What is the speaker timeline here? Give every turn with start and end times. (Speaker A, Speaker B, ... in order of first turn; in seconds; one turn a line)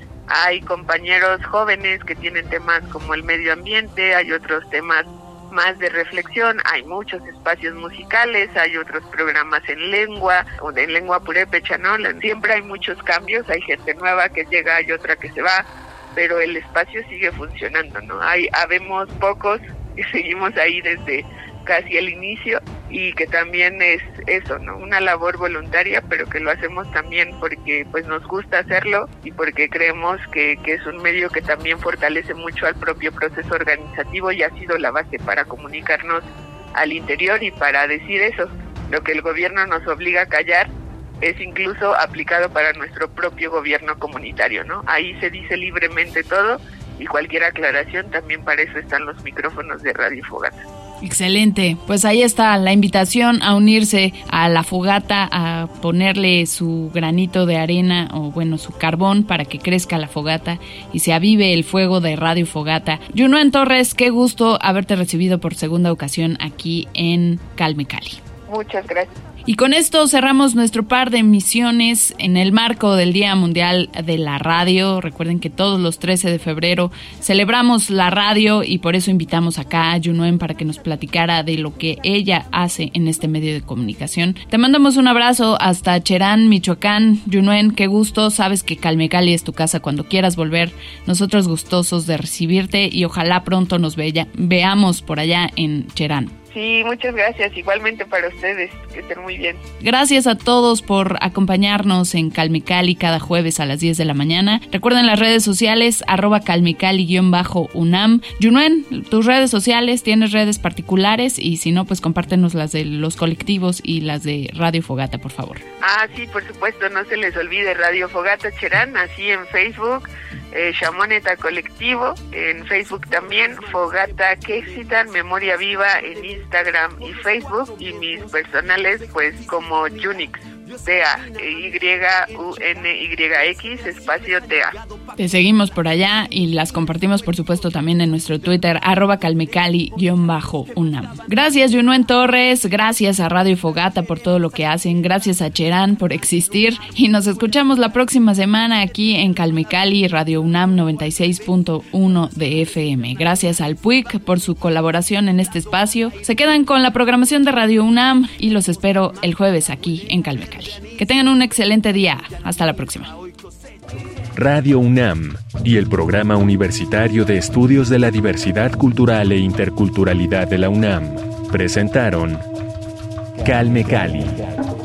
Speaker A: 0.3-50.6
Speaker B: 51.0-68.2
Speaker A: 68.5-69.1
Speaker B: 69.5-96.3
Speaker A: 96.5-99.6
Speaker B: 99.8-115.6
Speaker A: 115.8-134.8
Speaker B: 135.2-163.1
Speaker C: 164.3-172.4
Speaker C: 173.4-174.5